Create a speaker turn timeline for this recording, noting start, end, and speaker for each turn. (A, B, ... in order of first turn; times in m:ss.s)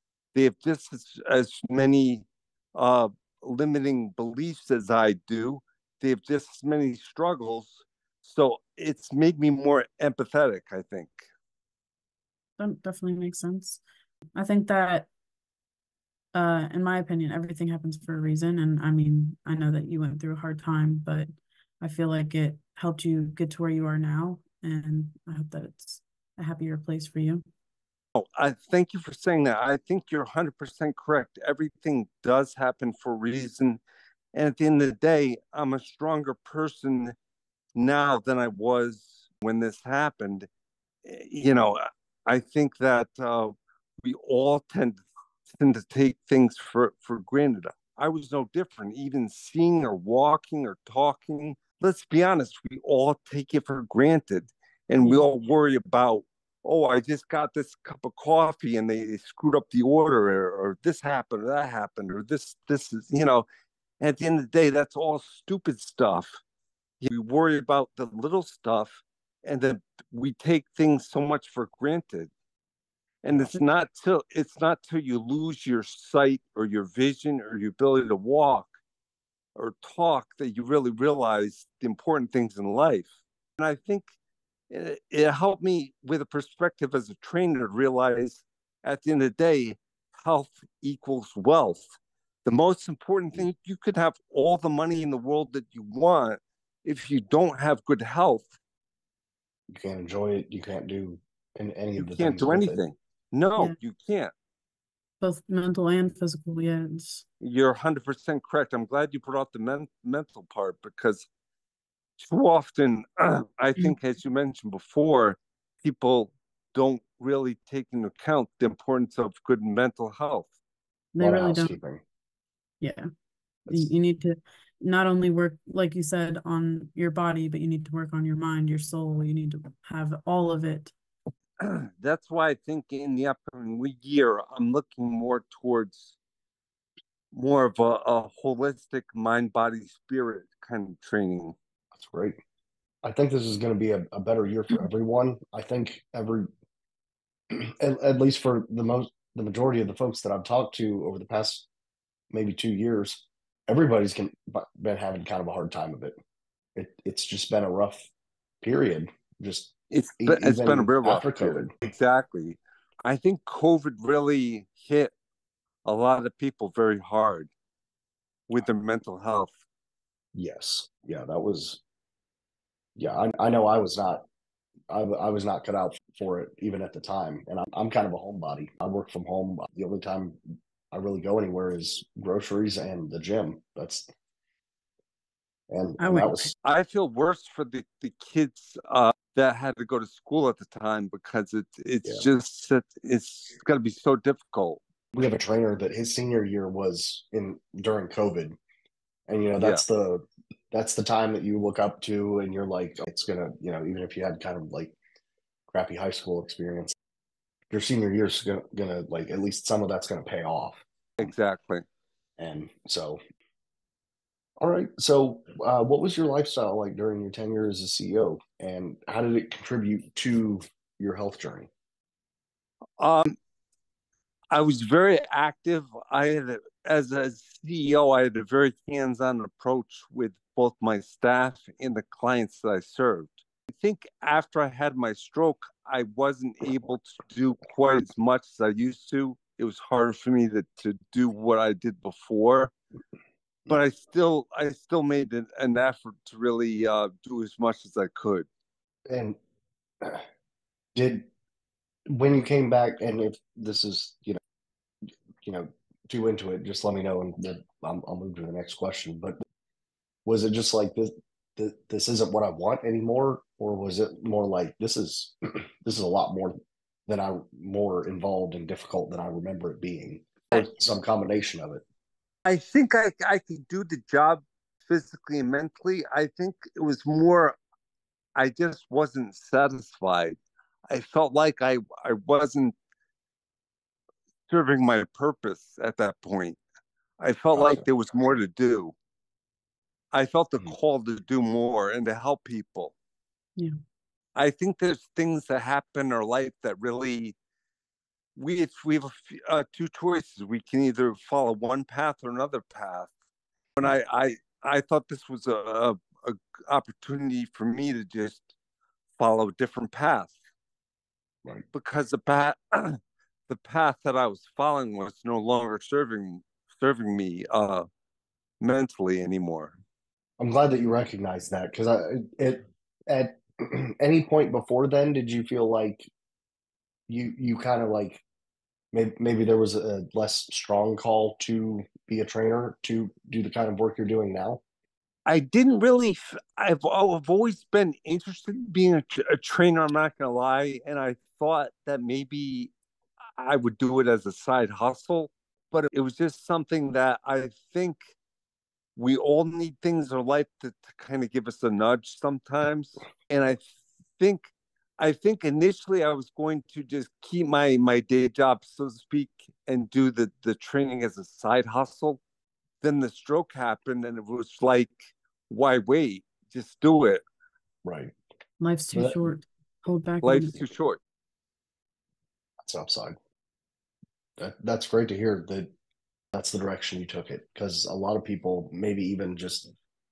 0:00.3-0:11.3 A
0:12.6-0:13.8 B
0:14.4-0:15.1 B
0:16.3-0:21.3 B
0:21.8-0:27.4 B
0:28.2-0:33.8 A
0:34.3-0:37.2 A
0:37.8-0:40.5 A
0:41.0-1:03.4 A
1:04.0-1:06.4 A
1:07.0-1:12.3 A
1:13.2-1:18.7 A
1:19.6-1:24.1 A
1:24.7-1:31.8 A
1:32.4-1:38.5 A
1:39.7-1:42.8 C
1:42.0-1:44.3 A
1:45.2-1:47.2 B
1:47.4-1:51.3 A
1:52.2-2:00.5 A
2:01.1-2:01.7 B
2:01.2-2:02.0 C
2:02.8-2:03.1 B
2:03.7-2:10.9 B
2:11.6-2:16.2 A
2:17.3-2:21.6 A
2:21.9-2:22.4 C
2:23.0-2:26.5 C
2:27.5-2:31.7 C
2:32.3-2:36.2 C
2:36.8-2:38.1 C
2:38.6-2:41.7 C
2:39.9-2:45.1 A
2:45.8-2:47.5 A
2:48.5-2:49.5 A
2:50.4-2:51.8 C
2:53.0-2:54.3 C
2:54.9-3:00.4 C
3:00.9-3:04.1 C
3:05.7-3:06.5 C
3:06.0-3:06.5 B
3:06.6-3:14.8 A
3:15.1-3:18.6 C
3:19.3-3:25.0 C
3:25.7-3:27.0 C
3:27.7-3:31.3 C
3:31.2-3:31.8 A
3:32.4-3:33.2 C
3:34.6-3:41.7 C
3:43.0-3:43.4 A
3:44.5-4:02.7 A
4:03.7-4:08.5 A
4:09.1-4:09.4 C
4:11.0-4:11.3 C
4:12.1-4:14.4 C
4:15.4-4:19.4 C
4:20.3-4:31.8 C
4:32.5-4:37.6 A
4:38.4-4:40.4 A
4:40.9-4:42.7 A
4:44.5-4:46.6 A
4:47.2-4:48.9 A
4:47.6-4:47.8 C
4:50.1-4:52.9 A
4:54.4-4:57.4 A
4:58.4-5:03.1 A
5:03.8-5:08.5 A
5:09.2-5:10.4 A
5:11.7-5:17.9 A
5:18.6-5:19.7 A
5:20.4-5:26.1 C
5:27.1-5:28.2 C
5:28.9-5:34.6 C
5:35.3-5:42.7 A
5:43.4-5:48.1 A
5:49.0-6:02.2 A
6:02.8-6:07.2 A
6:07.8-6:08.1 C
6:08.6-6:10.7 B
6:10.2-6:11.0 A
6:12.6-6:13.2 C
6:14.4-6:15.7 C
6:16.3-6:19.7 C